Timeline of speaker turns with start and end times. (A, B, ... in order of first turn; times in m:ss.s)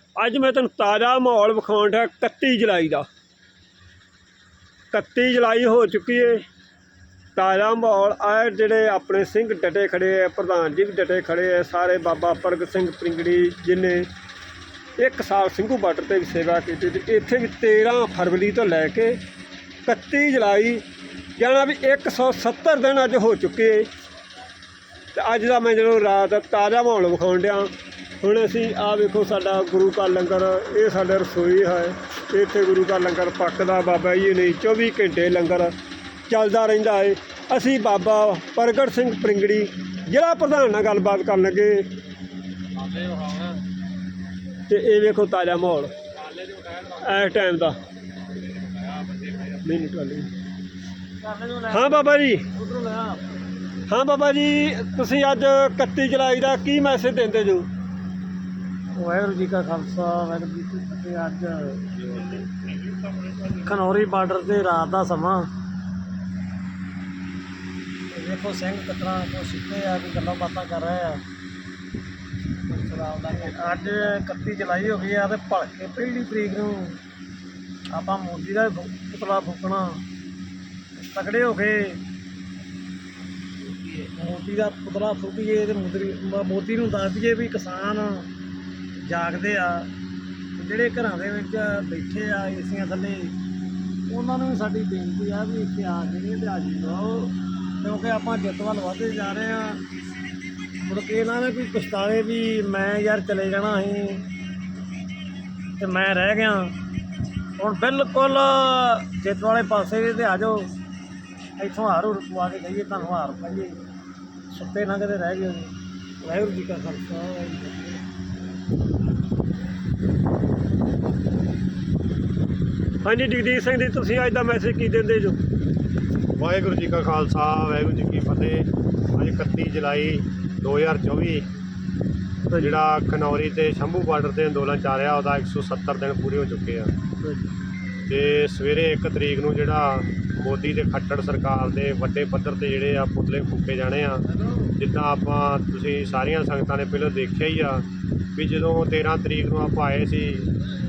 0:00.2-0:03.1 A
0:04.9-0:06.4 A
0:07.4-0:14.1 A
0:15.0-0:19.2 A
0:19.9-0:20.8 A
0:21.4-0:23.9 A
0:25.1-0:35.7 A
0:36.3-0:41.9 A
0:44.7-0:45.9 A
0:46.7-0:47.8 A
0:49.4-0:50.3 A
0:51.2-0:53.3 B
0:51.7-0:52.4 A
0:53.9-0:57.7 A
0:59.0-1:02.4 B
1:03.6-1:05.5 B
1:08.1-1:11.2 B
1:12.7-1:17.0 B
1:17.9-1:20.0 B
1:21.0-1:22.0 B
1:23.9-1:28.3 B
1:29.0-1:29.9 B
1:30.6-1:33.4 B
1:34.1-1:39.8 B
1:40.8-1:44.3 B
1:45.8-1:46.8 B
1:47.6-1:50.7 B
1:51.6-1:53.8 B
1:54.5-1:58.0 B
2:03.0-2:05.4 A
2:06.4-2:11.5 C
2:12.5-2:12.8 A
2:12.6-2:16.9 C
2:18.1-2:30.5 C